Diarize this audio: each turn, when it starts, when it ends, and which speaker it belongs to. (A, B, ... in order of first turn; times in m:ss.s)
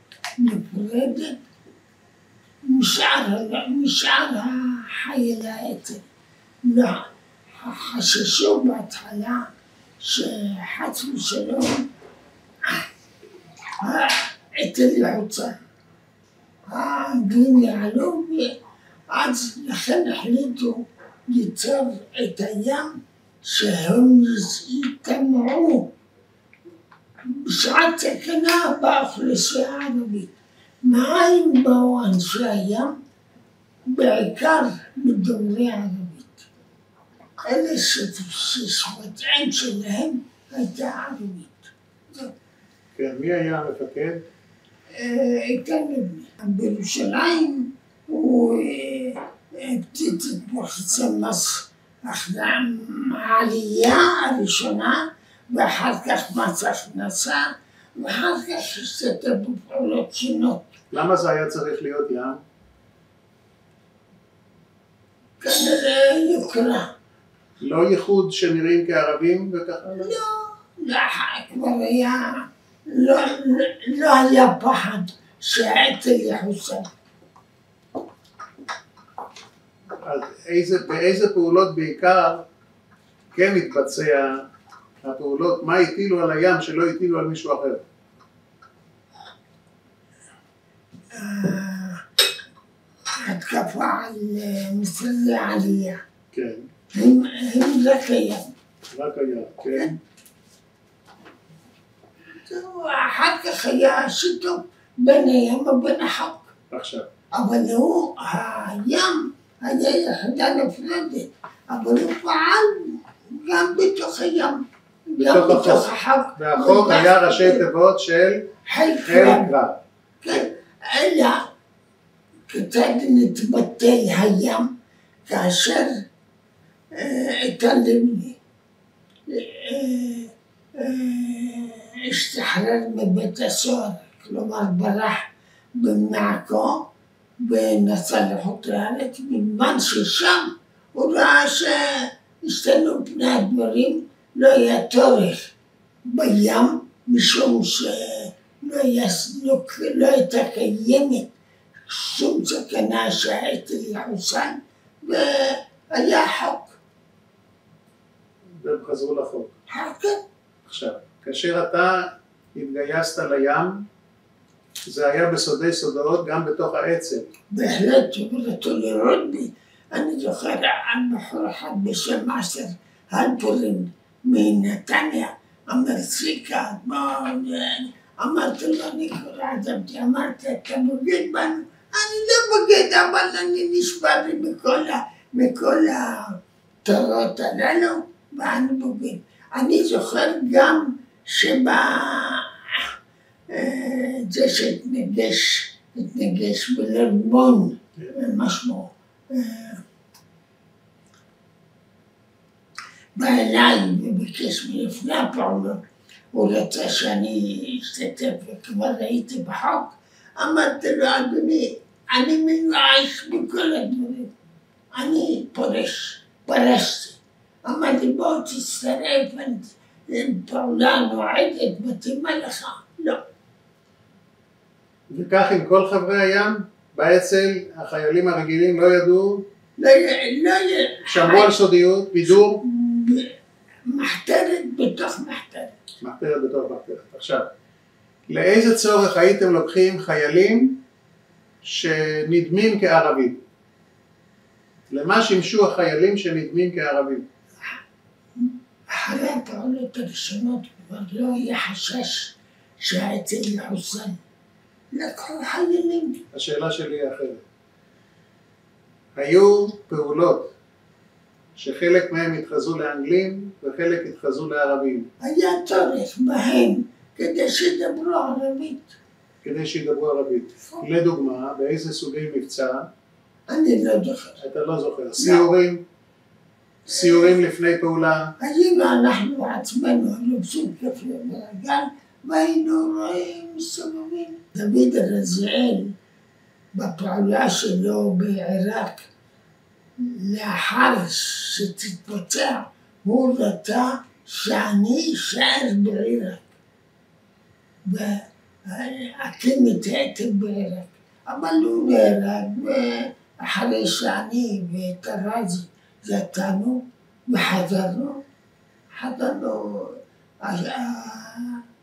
0:00.4-0:01.4 A
0:02.7-0:06.0 A
0:06.6-0:09.5 A
0:10.0-0:11.9 A
0:13.8-0:15.6 A
0:16.7-0:18.6 A
0:19.1-0:22.9 A
0:23.4-0:25.9 A
0:27.3-0:30.3 A
0:30.8-0:32.9 A
0:33.9-0:36.5 A
0:37.5-0:42.3 A
0:43.0-0:44.2 B
0:44.9-1:00.7 A
1:00.9-1:02.4 B
1:05.4-1:06.9 A
1:07.6-1:10.2 B
1:10.0-1:16.9 A
1:20.0-1:22.5 B
1:23.3-1:24.5 B
1:25.0-1:27.8 B
1:31.1-1:32.0 A
1:33.2-1:36.0 A
1:36.3-1:36.7 B
1:36.9-1:38.5 A
1:38.9-1:40.0 B
1:42.4-1:46.5 A
1:46.7-1:47.1 B
1:47.3-1:57.6 A
1:55.2-1:58.5 B
1:58.6-1:59.5 A
1:59.0-1:59.8 B
2:00.2-2:01.4 A
2:02.5-2:04.7 A
2:05.3-2:06.0 A
2:06.9-2:08.4 A
2:09.3-2:16.9 A
2:17.4-2:25.5 A
2:26.1-2:31.3 A
2:31.9-2:36.8 A
2:38.6-2:39.5 B
2:39.7-2:40.2 A
2:40.6-2:43.9 B
2:44.8-2:47.3 B
2:47.5-3:12.8 A
3:13.5-3:19.8 A
3:23.2-3:25.8 A
3:26.3-3:34.3 A
3:35.0-3:43.2 A
3:45.1-3:49.5 B
3:49.8-3:51.5 A
3:51.1-3:52.6 B
3:52.3-3:53.3 A
3:53.9-3:55.7 A
3:56.0-3:57.5 B
3:58.3-4:00.8 B
4:01.6-4:03.4 B
4:04.9-4:07.3 B
4:08.9-4:14.2 A
4:14.9-4:16.2 A
4:16.3-4:17.4 B
4:19.2-4:20.5 B
4:21.6-4:25.1 B
4:25.2-4:29.0 A
4:29.4-4:32.9 B
4:33.5-4:34.4 A
4:34.4-4:35.8 B
4:35.2-4:35.4 A
4:36.9-4:38.3 B
4:36.9-4:37.4 A
4:38.4-4:46.0 A
4:46.7-4:49.1 A
4:50.0-4:56.5 A
4:57.9-5:08.2 A
5:08.9-5:11.6 A